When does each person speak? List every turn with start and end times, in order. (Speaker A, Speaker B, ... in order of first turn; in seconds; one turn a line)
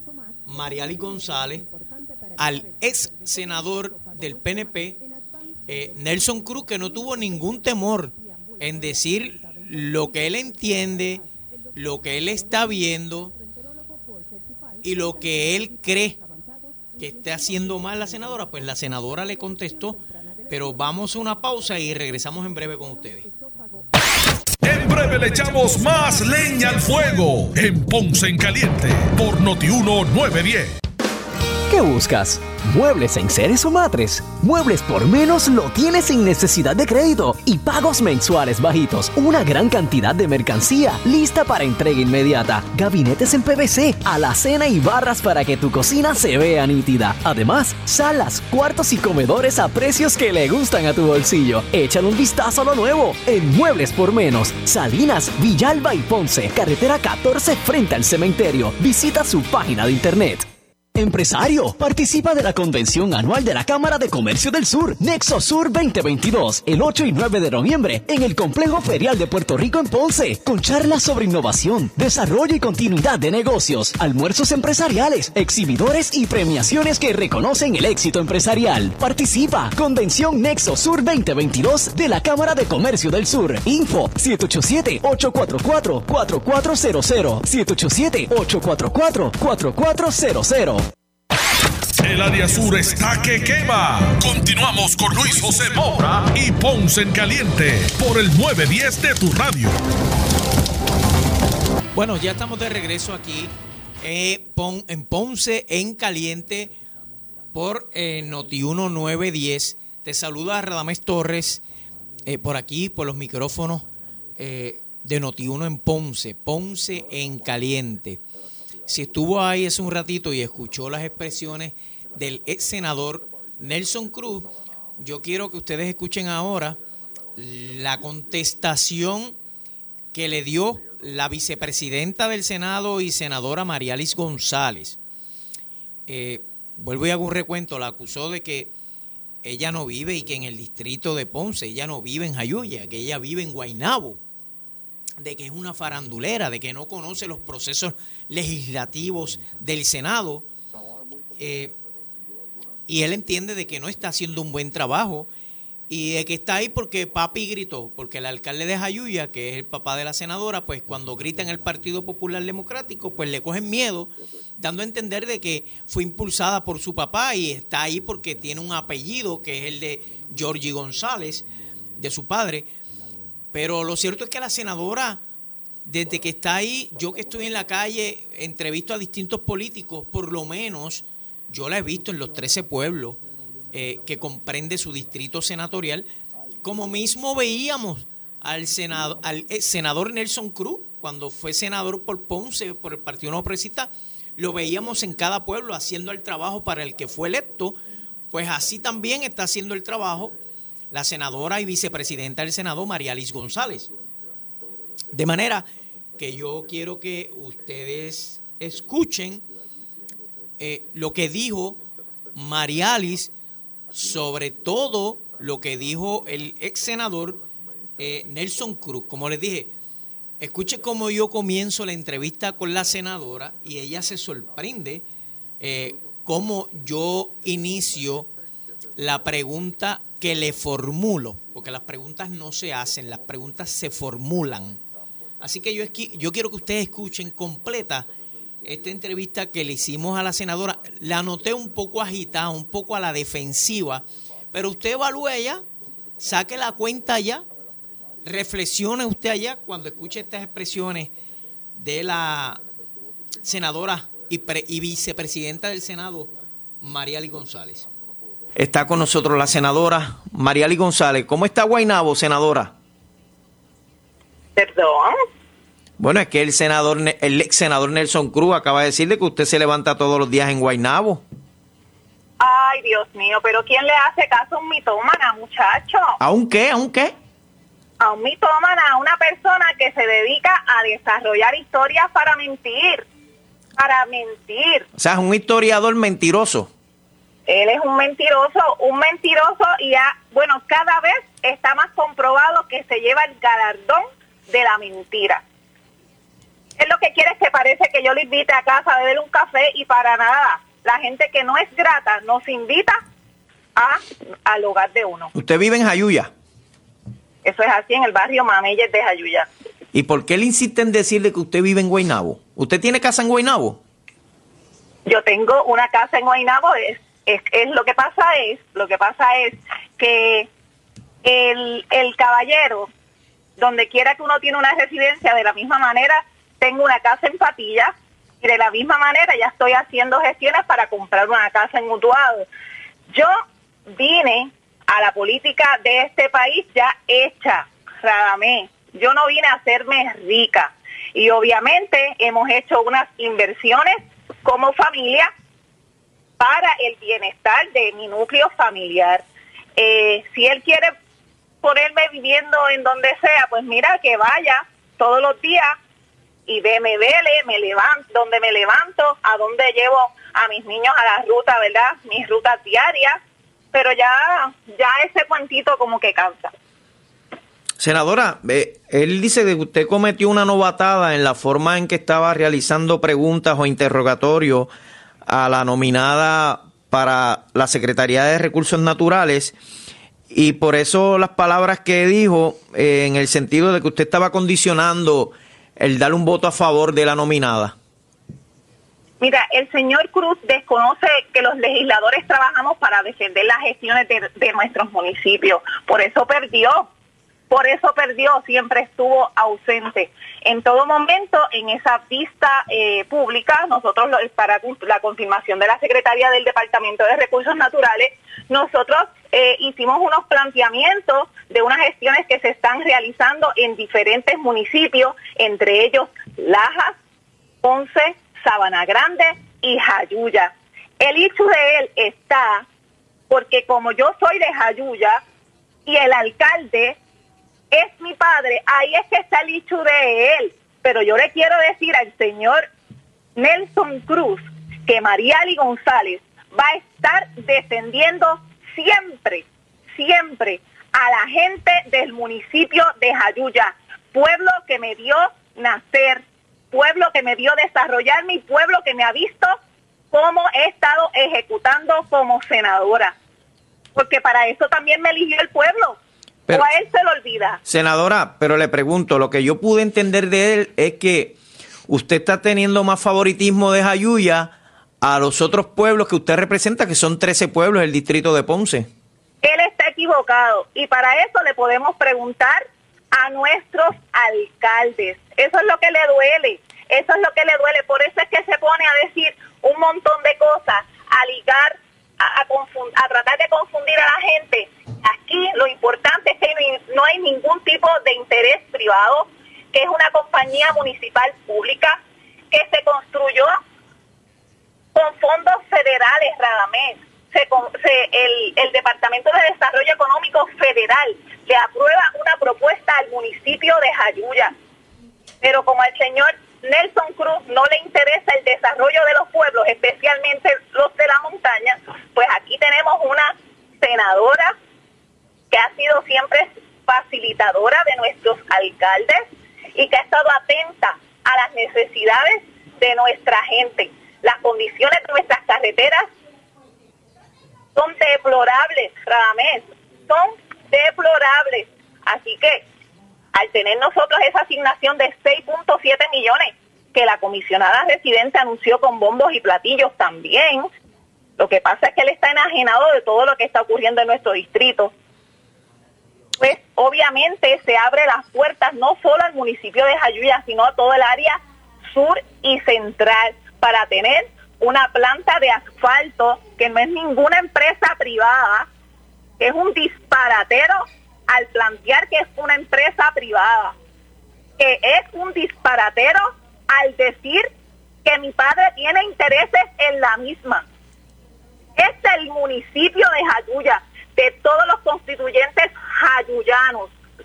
Speaker A: 0.5-1.7
Speaker A: 2.4-5.0
Speaker A: 5.7-11.2
Speaker A: 11.8-13.3
Speaker A: 14.8-16.2
Speaker A: 17.0-23.3
Speaker B: 24.6-30.8
Speaker C: 31.7-90.8
Speaker B: 92.0-99.8
Speaker A: 102.0-106.7
Speaker A: 107.5-111.6
Speaker A: 112.2-113.9
Speaker A: 114.4-118.2
Speaker A: 118.9-126.8
Speaker A: 127.4-129.4
Speaker A: 130.1-135.0
Speaker A: 136.1-138.7
Speaker A: 139.4-144.2
Speaker A: 145.2-150.5
Speaker A: 151.4-151.8
Speaker A: 152.9-155.3
Speaker A: 155.9-171.4
Speaker A: 172.0-172.7
Speaker A: 173.5-175.2
Speaker A: 175.9-183.2
Speaker A: 183.7-186.1
Speaker A: 186.6-197.8
Speaker A: 198.3-200.3
Speaker A: 200.9-203.9
Speaker A: 205.1-205.7
Speaker A: 206.2-209.4
Speaker A: 210.6-211.8
Speaker A: 212.3-213.3
Speaker A: 213.9-217.4
Speaker A: 218.0-219.7
Speaker A: 220.4-225.1
Speaker A: 225.6-228.3
Speaker A: 229.0-234.8
Speaker A: 235.4-238.1
Speaker A: 238.6-245.6
Speaker A: 246.2-247.4
Speaker A: 248.2-251.1
Speaker A: 251.8-252.6
Speaker A: 253.4-257.9
Speaker D: 258.6-262.7
Speaker E: 264.6-265.2
Speaker D: 266.0-271.2
Speaker E: 272.4-276.2
Speaker D: 276.2-277.1
Speaker E: 278.0-283.1
Speaker E: 283.8-284.9
Speaker D: 285.0-286.7
Speaker E: 287.5-295.4
Speaker E: 296.8-303.0
Speaker E: 303.8-305.3
Speaker D: 305.3-306.3
Speaker E: 307.4-309.5
Speaker D: 309.9-313.8
Speaker E: 315.1-320.5
Speaker E: 321.2-322.9
Speaker E: 323.6-332.5
Speaker E: 333.9-345.3
Speaker E: 346.4-349.2
Speaker E: 349.8-350.9
Speaker E: 351.6-355.8
Speaker E: 356.5-363.2
Speaker E: 363.7-366.5
Speaker D: 367.8-374.7
Speaker D: 375.2-379.6
Speaker D: 380.3-387.8
Speaker E: 389.2-396.9
Speaker E: 397.5-416.9
Speaker E: 417.6-422.6
Speaker E: 423.3-425.2
Speaker E: 425.9-427.0
Speaker E: 427.7-432.7
Speaker E: 433.4-449.6
Speaker E: 450.1-453.1
Speaker E: 453.9-456.0
Speaker E: 456.5-457.6
Speaker D: 457.7-461.4
Speaker D: 461.9-468.9
Speaker E: 469.4-492.0
Speaker E: 492.5-493.6
Speaker E: 494.9-504.5
Speaker E: 505.4-514.5
Speaker E: 515.5-526.1
Speaker E: 527.8-532.6
Speaker E: 533.3-540.7
Speaker E: 541.4-544.9
Speaker E: 546.4-551.4
Speaker E: 551.9-558.7
Speaker E: 559.4-563.8
Speaker E: 564.6-567.5
Speaker E: 568.0-570.6
Speaker E: 571.8-576.9